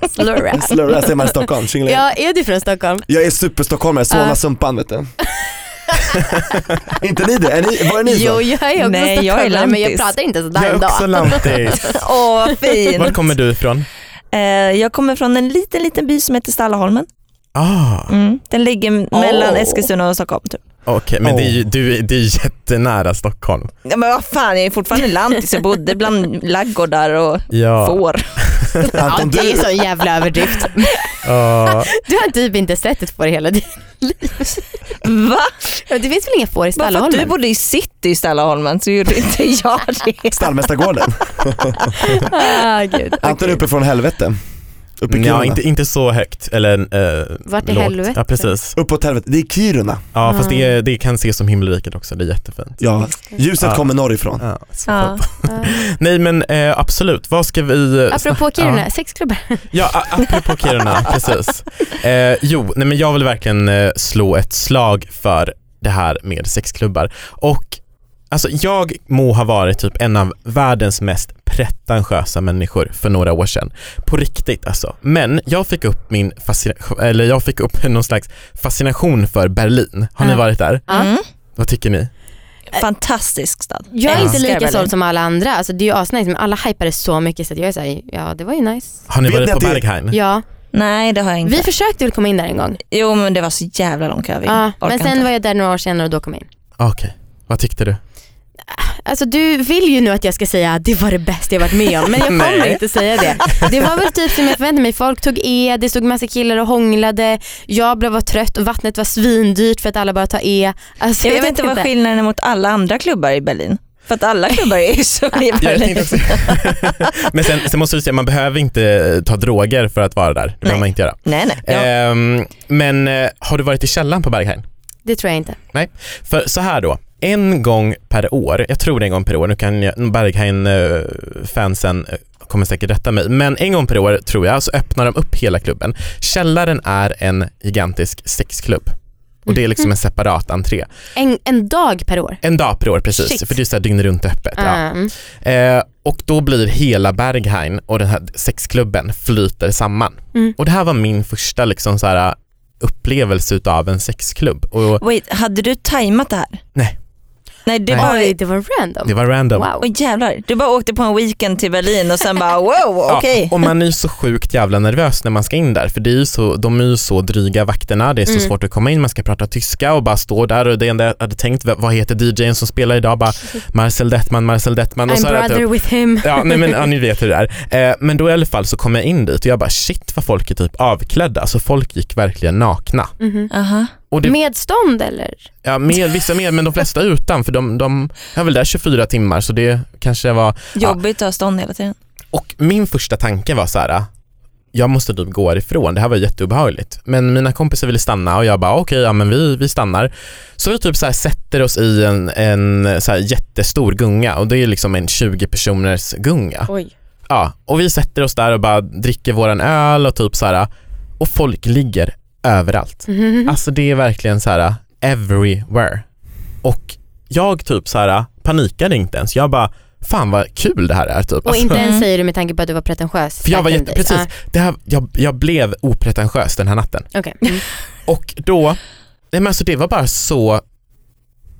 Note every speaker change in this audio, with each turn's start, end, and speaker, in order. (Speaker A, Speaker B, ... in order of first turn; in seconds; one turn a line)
Speaker A: 0.1-1.1
Speaker B: 0.5-2.0
Speaker A: 1.9-3.1
Speaker B: 3.1-5.1
Speaker A: 4.1-4.4
Speaker A: 5.9-6.5
Speaker B: 6.9-8.5
Speaker A: 8.0-12.0
Speaker C: 8.8-10.1
Speaker D: 10.6-12.0
Speaker C: 11.8-13.2
Speaker D: 12.9-13.9
Speaker C: 14.3-17.1
Speaker D: 17.6-18.1
Speaker C: 18.1-20.6
Speaker A: 19.4-19.8
Speaker D: 20.9-23.7
Speaker B: 21.2-21.6
Speaker C: 23.9-28.2
Speaker D: 27.5-28.8
Speaker A: 28.9-31.1
Speaker B: 28.9-29.7
Speaker D: 31.2-31.9
Speaker A: 31.6-34.6
Speaker C: 35.0-35.8
Speaker A: 35.9-37.3
Speaker C: 36.8-40.4
Speaker B: 40.3-42.0
Speaker A: 42.0-43.6
Speaker B: 43.2-44.4
Speaker B: 45.0-45.6
Speaker D: 45.1-48.8
Speaker A: 47.5-48.5
Speaker B: 48.8-50.1
Speaker D: 50.1-52.8
Speaker A: 50.2-50.7
Speaker B: 52.8-54.5
Speaker D: 53.6-53.9
Speaker D: 54.4-58.9
Speaker C: 54.9-55.2
Speaker A: 55.5-55.8
Speaker A: 58.1-59.7
Speaker D: 59.7-67.8
Speaker D: 68.3-80.8
Speaker A: 80.2-81.1
Speaker C: 80.9-81.2
Speaker D: 81.6-82.1
Speaker C: 82.7-84.9
Speaker A: 83.9-89.0
Speaker D: 84.1-84.4
Speaker D: 89.1-90.2
Speaker B: 89.2-89.8
Speaker A: 90.1-90.4
Speaker C: 90.7-91.7
Speaker A: 91.4-92.8
Speaker C: 92.9-95.2
Speaker A: 94.5-96.5
Speaker D: 96.8-98.0
Speaker A: 98.7-111.9
Speaker D: 102.2-103.7
Speaker C: 111.2-116.6
Speaker D: 115.6-124.6
Speaker C: 120.7-121.9
Speaker A: 125.0-125.6
Speaker D: 125.7-138.9
Speaker D: 139.5-140.9
Speaker A: 141.2-142.4
Speaker D: 142.4-144.8
Speaker A: 144.6-145.1
Speaker D: 145.4-155.0
Speaker C: 155.0-156.6
Speaker C: 157.7-158.3
Speaker A: 157.9-159.9
Speaker D: 159.1-159.7
Speaker C: 159.8-163.7
Speaker D: 163.1-183.1
Speaker A: 175.1-176.9
Speaker A: 183.2-183.5
Speaker C: 183.5-183.9
Speaker D: 184.1-184.4
Speaker A: 184.2-185.4
Speaker D: 185.6-191.0
Speaker C: 190.8-191.9
Speaker D: 192.3-194.1
Speaker D: 194.7-206.7
Speaker D: 207.3-216.0
Speaker A: 213.1-213.6
Speaker D: 216.6-221.8
Speaker A: 221.4-224.3
Speaker C: 221.8-222.1
Speaker D: 223.4-227.1
Speaker A: 227.2-227.6
Speaker D: 228.1-228.8
Speaker D: 229.3-230.6